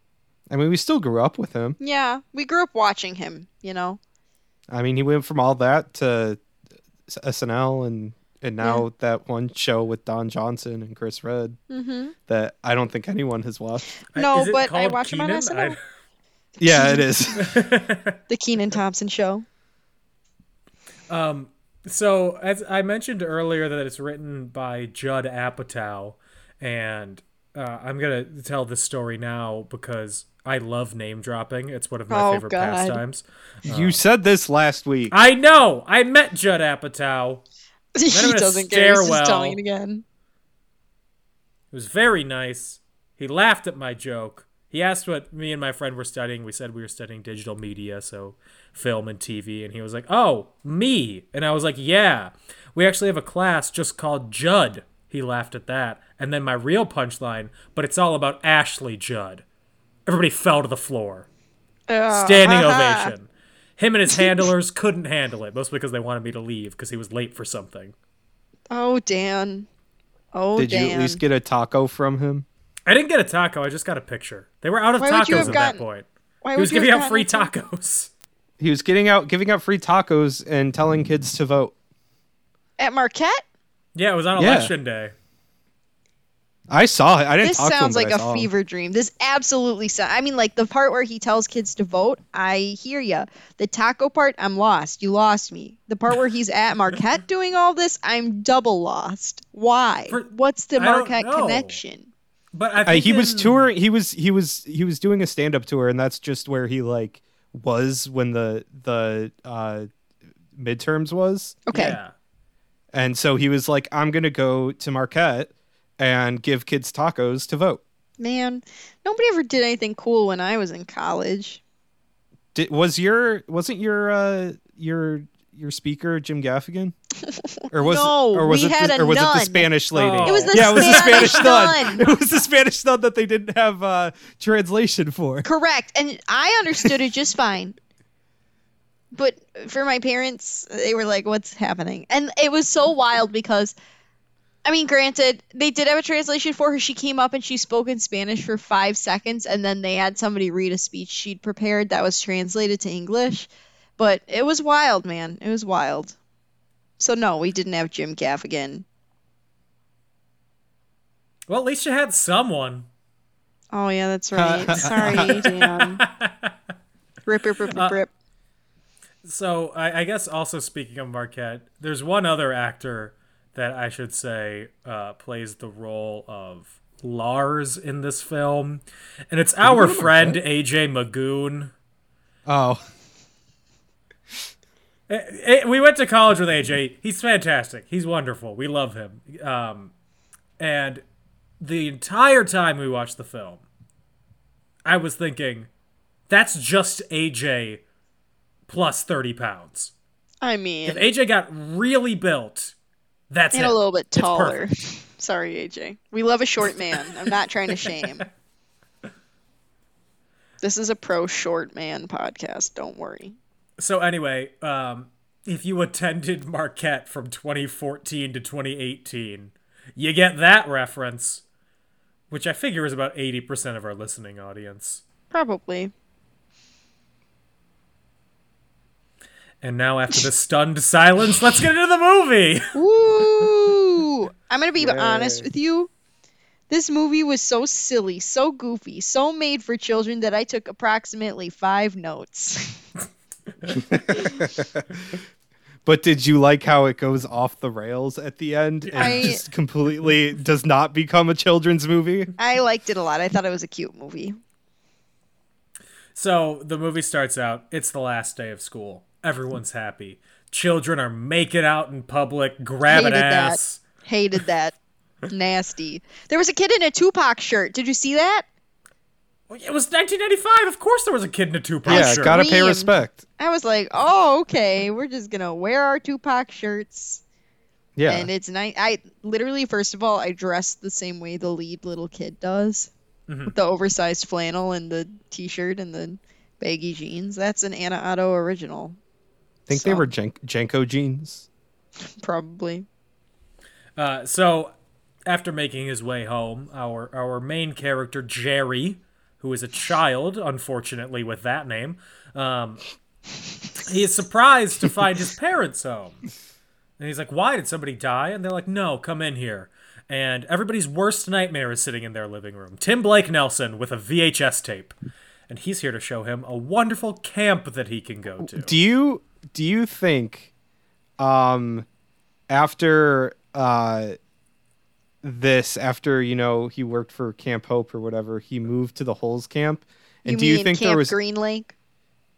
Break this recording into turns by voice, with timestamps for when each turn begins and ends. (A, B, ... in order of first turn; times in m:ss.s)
0:00.5-0:01.8 A
0:01.8-0:04.0 B
0:04.7-0:06.4 A
0:07.1-0:11.6 A
0:11.7-0:12.1 B
0:12.3-0:13.9 A
0:14.1-0:15.8 B
0:14.1-0:15.8 C
0:16.6-0:17.0 B
0:16.6-0:17.5 A
0:17.4-0:18.2 C
0:18.3-0:19.4 B
0:21.1-0:34.0 C
0:32.1-0:33.0 B
0:33.7-0:35.2 A
0:35.1-0:37.4 C
0:38.0-0:40.0 B
0:38.1-0:39.6 C
0:41.7-0:59.4 C
1:00.1-1:01.3 C
1:01.9-1:03.1 B
1:02.1-1:07.9 C
1:04.1-1:04.5 B
1:08.7-1:09.7 B
1:10.3-1:11.2 B
1:10.6-1:12.5 A
1:12.9-1:18.1 C
1:15.0-1:15.8 B
1:15.3-1:15.6 A
1:16.4-1:17.5 B
1:18.6-1:21.7 A
1:22.8-1:23.4 B
1:24.0-1:25.1 C
1:24.4-1:24.7 A
1:26.7-1:28.5 A
1:27.4-1:42.1 B
1:40.1-1:41.8 C
1:42.5-1:43.7 C
1:42.8-1:49.9 A
1:50.6-1:51.6 A
1:51.7-1:52.0 B
1:51.7-1:52.1 C
1:52.9-1:57.8 A
1:58.2-2:01.6 B
2:02.6-2:07.0 A
2:07.6-2:12.1 B
2:07.7-2:15.5 A
2:10.0-2:11.5 C
2:15.4-2:17.8 B
2:19.1-2:23.8 B
2:24.6-2:36.2 B
2:37.0-2:38.8 B
2:41.5-2:42.9 C
2:43.7-2:46.0 B
2:44.3-2:45.5 A
2:44.8-2:46.5 C
2:47.3-2:48.1 B
2:47.7-2:48.0 C
2:49.2-3:01.7 C
2:59.6-3:00.4 A
3:02.5-3:02.8 A
3:05.1-3:09.9 C
3:10.6-3:11.0 C
3:11.6-3:13.6 C
3:14.8-3:15.7 C
3:16.3-3:17.8 C
3:18.7-3:19.9 C
3:20.4-3:21.1 B
3:20.9-3:22.7 C
3:23.3-3:24.6 C
3:23.5-3:28.3 B
3:30.6-3:33.4 B
3:33.8-3:41.4 C
3:42.3-3:45.0 C
3:45.3-3:45.9 B
3:49.6-3:52.7 C
3:52.8-3:55.9 B
3:54.8-3:55.4 C
3:56.7-4:02.8 B
4:03.7-4:05.2 A
4:05.8-4:12.3 A
4:08.8-4:09.4 C
4:09.0-4:09.4 B
4:12.4-4:14.4 B
4:16.2-4:23.8 C
4:22.9-4:24.8 B
4:25.3-4:28.5 B
4:29.5-4:32.4 C
4:31.8-4:33.2 A
4:31.9-4:37.2 B
4:38.0-4:38.3 A
4:38.1-4:42.9 B
4:43.3-4:43.6 C
4:43.5-4:49.0 B
4:49.7-4:51.5 A
4:49.7-4:50.1 B
4:52.2-4:52.9 B
4:54.0-4:54.7 C
4:55.3-5:02.8 C
5:03.8-5:06.2 C
5:07.0-5:15.0 C
5:15.5-5:18.8 C
5:18.4-5:20.5 A
5:21.2-5:21.9 A
5:22.5-5:24.2 A
5:25.2-5:31.2 A
5:30.3-5:31.7 B